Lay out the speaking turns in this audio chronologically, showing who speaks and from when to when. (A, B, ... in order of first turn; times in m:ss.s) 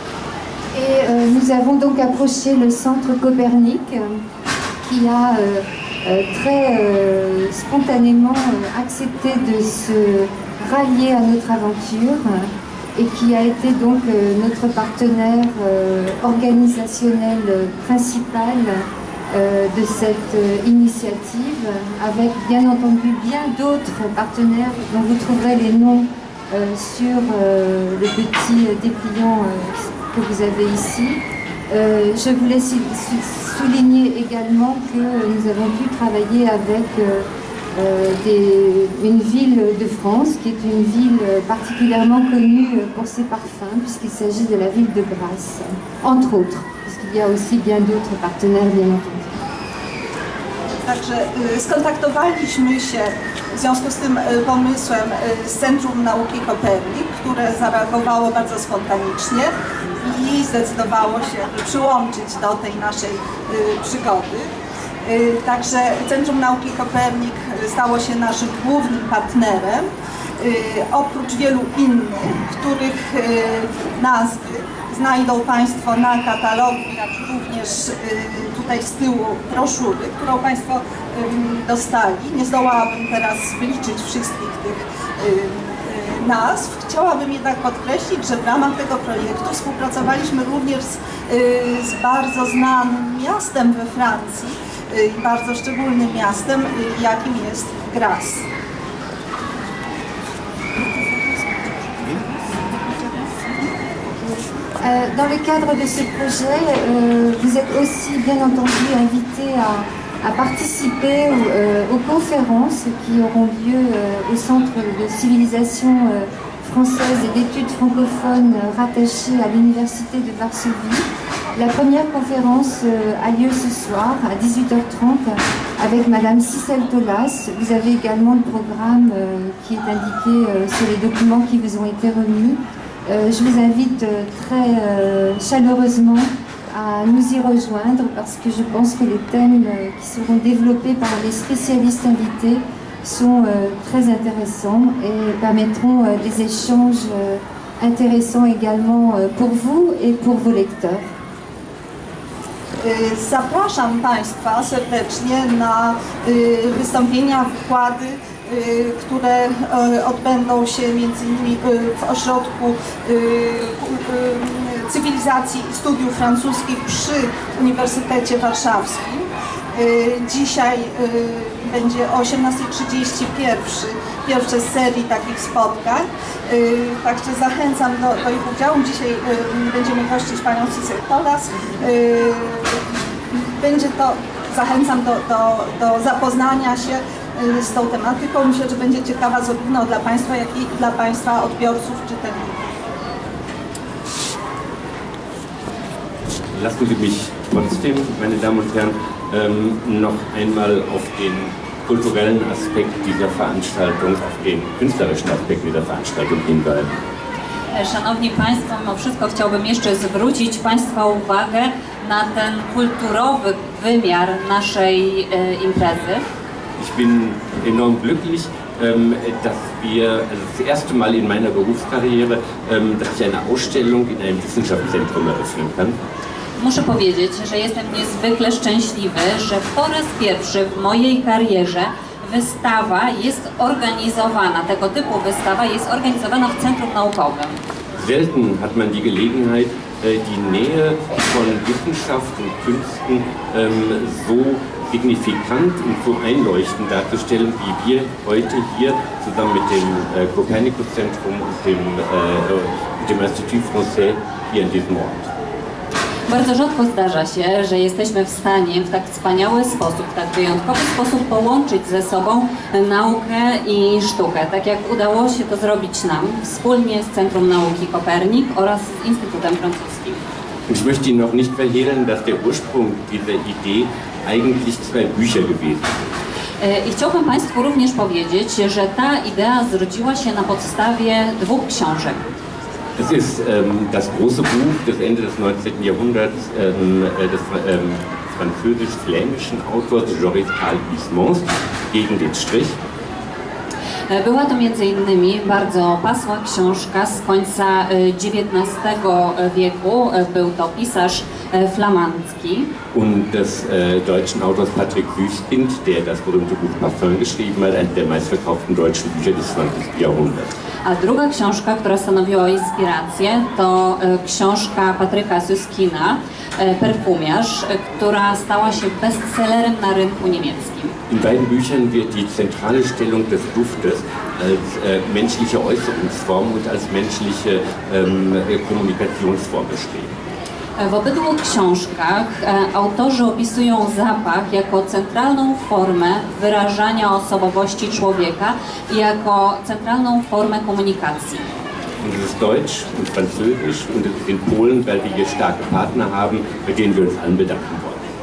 0:00.7-0:04.2 A
0:04.8-0:49.4 A
0:50.8-1:04.5 B
1:05.0-1:38.5 B
1:44.1-2:31.1 A
2:32.8-3:12.6 B
3:16.5-3:27.0 C
3:27.7-3:36.2 D
3:36.8-3:46.0 C
3:46.6-3:57.6 D
3:58.0-4:15.3 C
4:16.3-4:30.2 D
4:30.7-4:36.0 C
4:36.6-4:42.3 D
4:43.0-4:52.8 C
4:54.1-5:02.7 D
5:02.9-5:10.5 C
5:10.8-5:21.0 D
5:21.1-5:30.1 C
5:30.8-5:41.5 D
5:42.0-5:48.0 C